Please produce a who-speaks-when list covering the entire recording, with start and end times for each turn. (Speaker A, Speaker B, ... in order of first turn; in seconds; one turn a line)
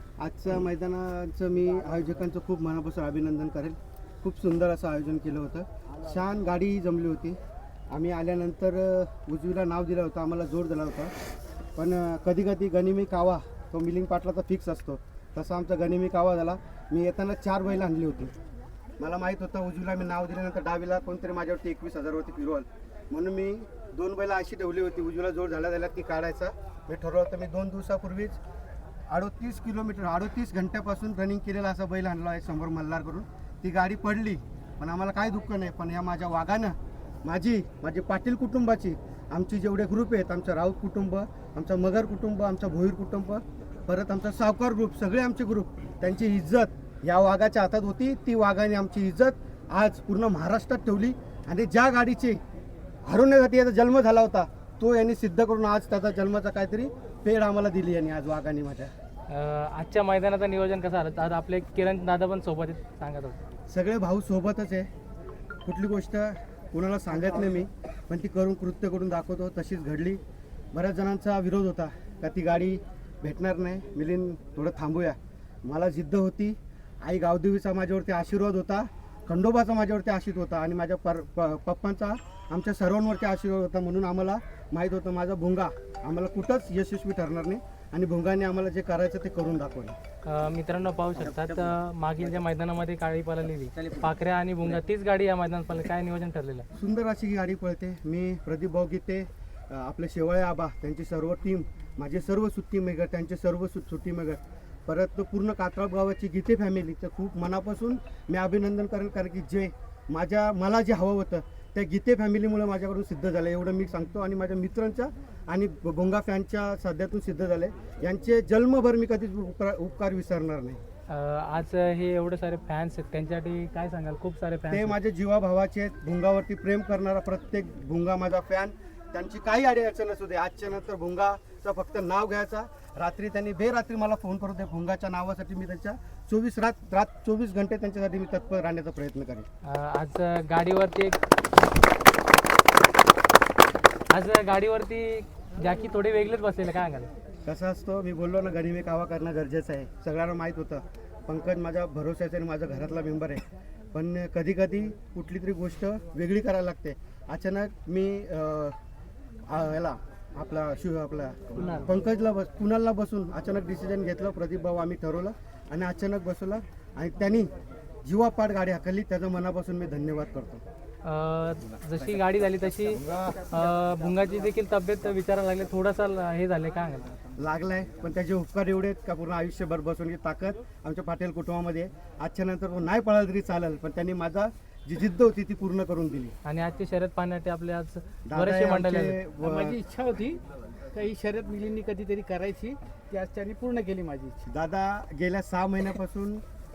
Speaker A: 0.2-7.4
Speaker A: 7.9-11.1
Speaker A: 11.8-18.3
Speaker A: 19.0-28.4
Speaker A: 29.1-52.4
Speaker A: 53.0-58.9
Speaker B: 59.3-63.4
Speaker A: 63.7-64.9
Speaker A: 65.6-70.2
Speaker A: 70.7-90.0
Speaker B: 90.2-96.7
Speaker A: 96.7-120.8
Speaker B: 121.1-125.0
Speaker A: 124.7-139.5
Speaker B: 139.6-141.2
Speaker B: 144.1-147.1
Speaker A: 147.4-158.8
Speaker A: 159.5-167.5
Speaker B: 161.6-161.9
Speaker A: 168.0-170.6
Speaker B: 171.0-177.1
Speaker A: 177.4-186.3
Speaker B: 186.4-189.2
Speaker A: 188.2-189.8
Speaker C: 189.4-190.4
Speaker C: 190.9-194.4
Speaker A: 194.4-196.4